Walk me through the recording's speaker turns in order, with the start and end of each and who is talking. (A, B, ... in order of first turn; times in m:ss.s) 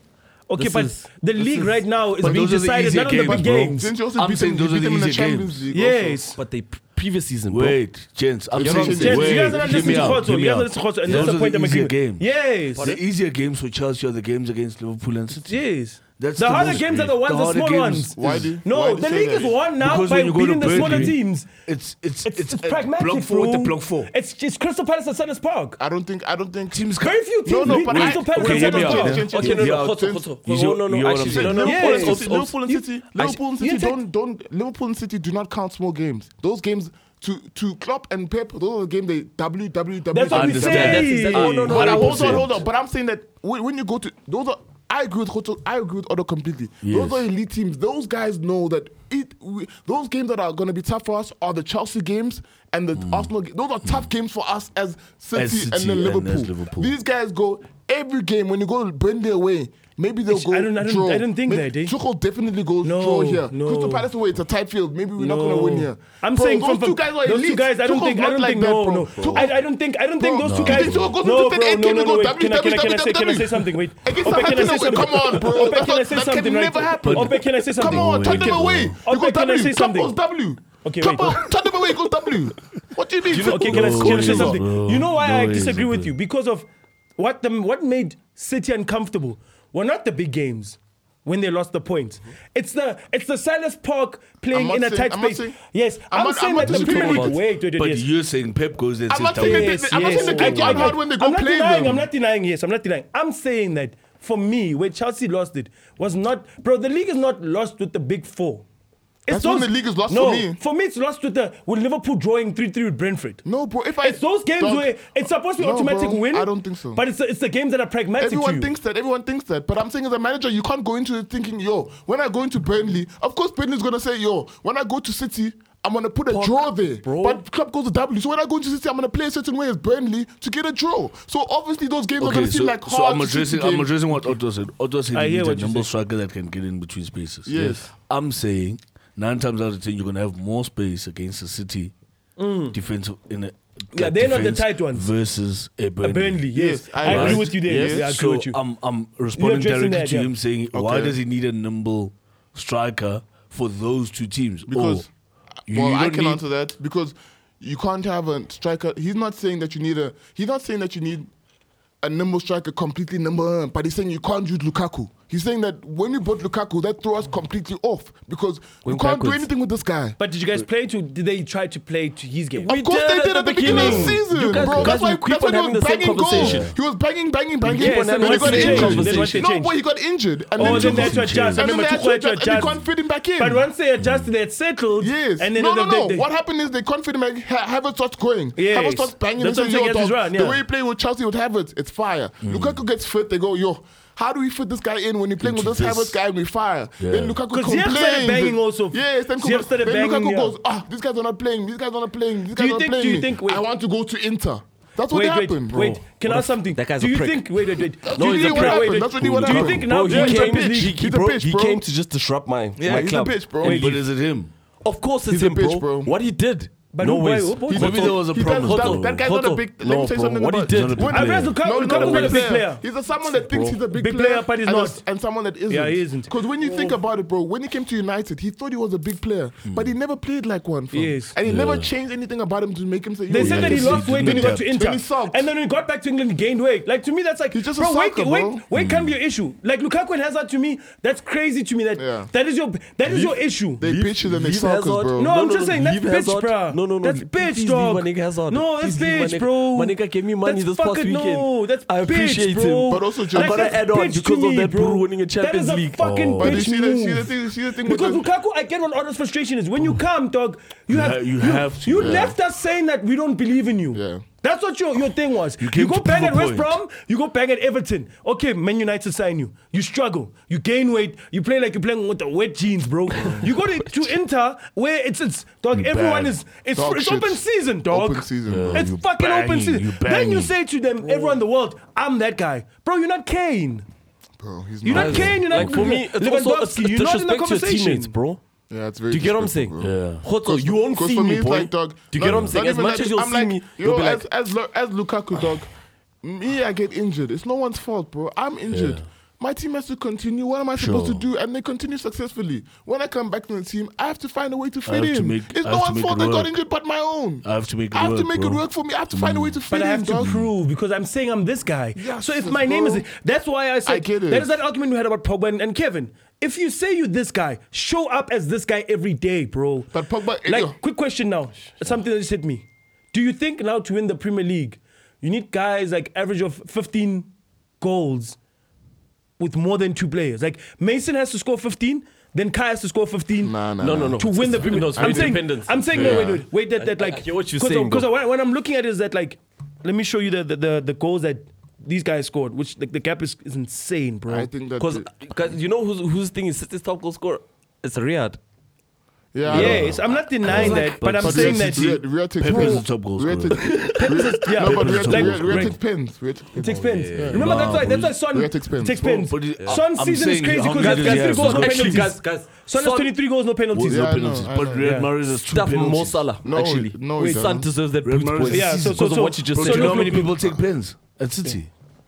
0:00.5-0:03.9 A
0:00.6-0:01.7 B
0:02.2-0:05.7 C
0:02.2-0:06.2 D
0:05.7-0:06.4 A
0:06.3-0:07.8 B
0:07.5-0:15.6 C
0:08.5-0:10.3 D
0:08.6-0:09.8 B
0:08.8-0:13.0 A
0:12.8-0:13.0 B
0:15.3-0:21.5 A
0:16.2-0:18.6 C
0:18.2-0:19.6 D
0:19.8-0:24.1 C
0:20.8-0:21.1 D
0:22.2-0:25.8 A
0:25.8-0:26.9 D
0:26.7-0:31.8 C
0:27.0-0:29.3 A
0:27.4-0:30.3 D
0:28.4-0:32.6 B
0:31.2-1:09.6 D
0:31.6-0:34.0 A
0:40.1-0:41.9 A
0:40.3-0:42.6 C
0:40.7-0:42.6 B
0:46.8-0:47.2 C
0:53.0-0:53.3 C
0:55.4-0:56.9 C
1:00.3-1:02.0 A
1:02.8-1:04.1 A
1:05.2-1:20.2 A
1:09.2-1:09.5 B
1:10.2-1:24.4 D
1:10.4-1:11.2 C
1:17.0-1:19.0 C
1:20.8-1:21.5 A
1:23.3-1:24.6 B
1:23.3-1:26.7 A
1:23.6-1:26.1 C
1:27.2-1:38.1 A
1:34.5-1:35.6 D
1:36.1-1:37.4 D
1:36.6-1:37.4 B
1:37.8-1:41.0 C
1:39.1-1:42.1 D
1:39.3-1:48.6 A
1:49.3-1:53.4 A
1:49.3-1:50.6 D
1:53.4-1:55.1 D
1:54.0-1:58.7 A
1:55.6-1:57.0 D
1:58.2-2:14.4 D
2:06.3-2:07.4 B
2:12.2-2:21.9 C
2:15.1-2:15.9 A
2:17.5-2:17.9 D
2:22.4-2:22.8 A
2:22.7-2:26.4 C
2:23.9-2:25.1 A
2:26.0-2:28.6 A
2:26.5-2:28.1 D
2:27.0-2:27.9 B
2:27.1-2:35.1 C
2:29.4-2:30.3 A
2:30.7-2:31.2 D
2:34.7-2:35.1 D
2:35.7-2:36.4 C
2:35.7-2:41.3 D
2:42.0-2:50.2 D
2:48.8-2:49.5 B
2:50.2-2:52.7 A
2:52.6-2:56.7 B
2:52.6-3:03.7 D
2:53.6-2:55.0 C
2:56.3-2:56.8 C
2:57.6-2:59.5 B
2:57.7-2:59.8 A
2:58.6-2:59.0 C
3:00.6-3:02.8 A
3:00.6-3:01.8 C
3:03.4-3:06.3 A
3:04.0-3:04.3 C
3:05.0-3:26.0 D
3:08.6-3:10.6 A
3:12.4-3:12.8 C
3:15.4-3:16.2 C
3:17.0-3:17.4 C
3:17.5-3:20.6 A
3:22.5-3:23.6 A
3:25.1-3:31.0 A
3:25.7-3:33.4 B
3:28.1-3:31.8 D
3:32.8-3:34.0 D
3:32.9-3:34.5 C
3:33.6-3:34.0 A
3:34.8-3:41.2 B
3:35.3-3:36.1 D
3:36.9-3:38.1 A
3:37.7-3:55.5 D
3:37.7-3:39.3 C
3:40.7-3:41.6 C
3:41.1-3:42.8 A
3:41.8-3:42.5 B
3:43.3-3:43.8 B
3:43.9-3:45.0 A
3:45.7-3:47.0 A
3:49.7-3:49.9 C
3:50.9-3:51.4 A
3:51.4-3:51.9 C
3:53.3-4:03.8 A
3:53.3-3:54.7 C
3:57.5-3:58.6 D
3:58.7-3:59.2 C
4:02.0-4:02.3 D
4:03.0-4:16.0 B
4:03.8-4:05.3 D
4:05.2-4:43.8 A
4:12.9-4:13.8 D
4:16.0-4:16.7 C
4:16.4-4:18.2 D
4:20.9-4:22.4 C
4:22.0-4:22.4 D
4:23.9-4:24.2 D
4:25.6-4:26.8 C
4:33.2-4:33.5 D
4:35.7-4:36.4 C
4:36.8-4:38.9 D
4:38.5-4:40.5 C
4:41.0-4:41.3 B
4:44.4-4:45.7 D
4:44.8-4:48.1 A
4:44.9-4:48.4 B
4:48.7-4:55.7 D
4:49.1-4:54.2 B
4:49.8-4:50.2 C
4:52.2-4:52.6 C
4:56.2-5:10.4 D
4:58.7-4:59.0 C
5:00.8-5:01.3 C
5:04.9-5:06.6 C
5:07.4-5:09.6 C
5:09.7-5:27.3 A
5:10.2-5:10.5 C
5:12.0-5:13.0 D
5:13.9-5:14.5 D
5:19.9-5:20.8 D
5:27.8-5:28.4 A
5:29.4-5:33.6 A
5:33.4-5:36.4 D
5:33.8-5:38.1 B
5:34.2-5:44.5 A
5:44.3-5:45.1 D
5:44.8-5:48.4 B
5:49.3-5:50.0 D
5:49.5-5:53.8 C
5:49.5-5:52.8 A
5:50.4-5:51.0 B
5:50.7-5:59.1 D
5:53.6-5:54.3 B
5:53.8-5:55.8 A
5:54.6-5:55.8 C
5:56.6-6:05.1 A
5:56.6-5:57.5 B
5:57.3-5:58.2 C
5:59.0-6:02.1 C
5:59.6-5:59.8 B
6:00.7-6:03.1 B
6:03.7-6:06.2 C
6:03.8-6:04.9 D
6:05.3-6:10.3 B
6:06.4-6:07.7 D
6:07.2-6:07.4 A
6:08.0-6:11.7 C
6:08.5-6:10.4 A